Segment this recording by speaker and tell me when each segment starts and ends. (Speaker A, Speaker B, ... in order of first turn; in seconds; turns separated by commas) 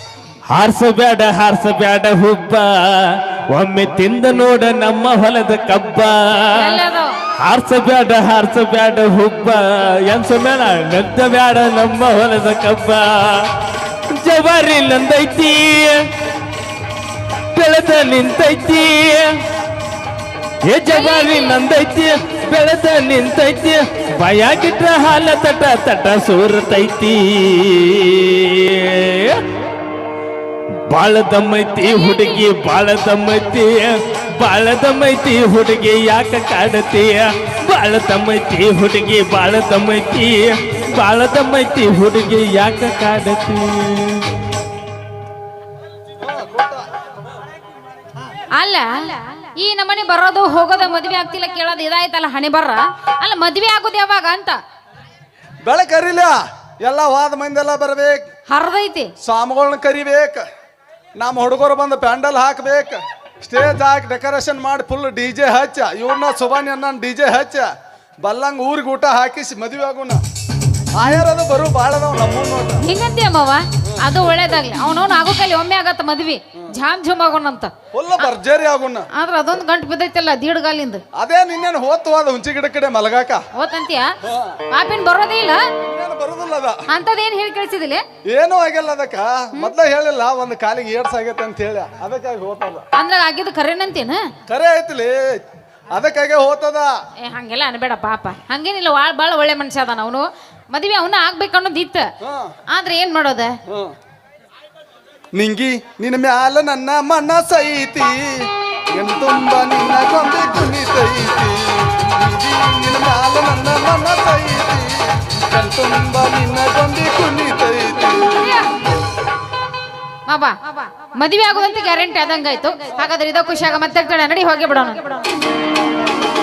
Speaker A: 0.5-6.8, Speaker B: 6.5-7.1, Speaker A: 7.4-13.5, Speaker A: 14.1-16.0, Speaker A: 17.5-19.3, Speaker A: 20.6-29.4, Speaker B: 20.9-21.6, Speaker A: 30.9-44.3, Speaker C: 46.2-46.9, Speaker B: 48.5-54.6, Speaker C: 55.6-58.2, Speaker B: 58.5-59.1, Speaker C: 59.2-60.4, Speaker C: 61.2-67.7, Speaker C: 68.2-70.2, Speaker C: 70.9-72.8, Speaker B: 72.8-78.3, Speaker C: 77.9-79.0, Speaker B: 79.1-81.0, Speaker C: 81.1-83.4, Speaker B: 83.5-84.1, Speaker C: 84.3-84.5, Speaker B: 84.7-85.6, Speaker C: 85.9-86.8, Speaker B: 86.9-88.0, Speaker C: 88.3-92.8, Speaker B: 92.9-94.3, Speaker C: 94.5-95.2, Speaker C: 95.9-96.9, Speaker B: 97.2-102.0, Speaker C: 102.2-102.5, Speaker B: 102.7-103.5, Speaker C: 103.7-103.9, Speaker C: 105.3-118.4, Speaker B: 118.3-118.7, Speaker B: 120.2-125.3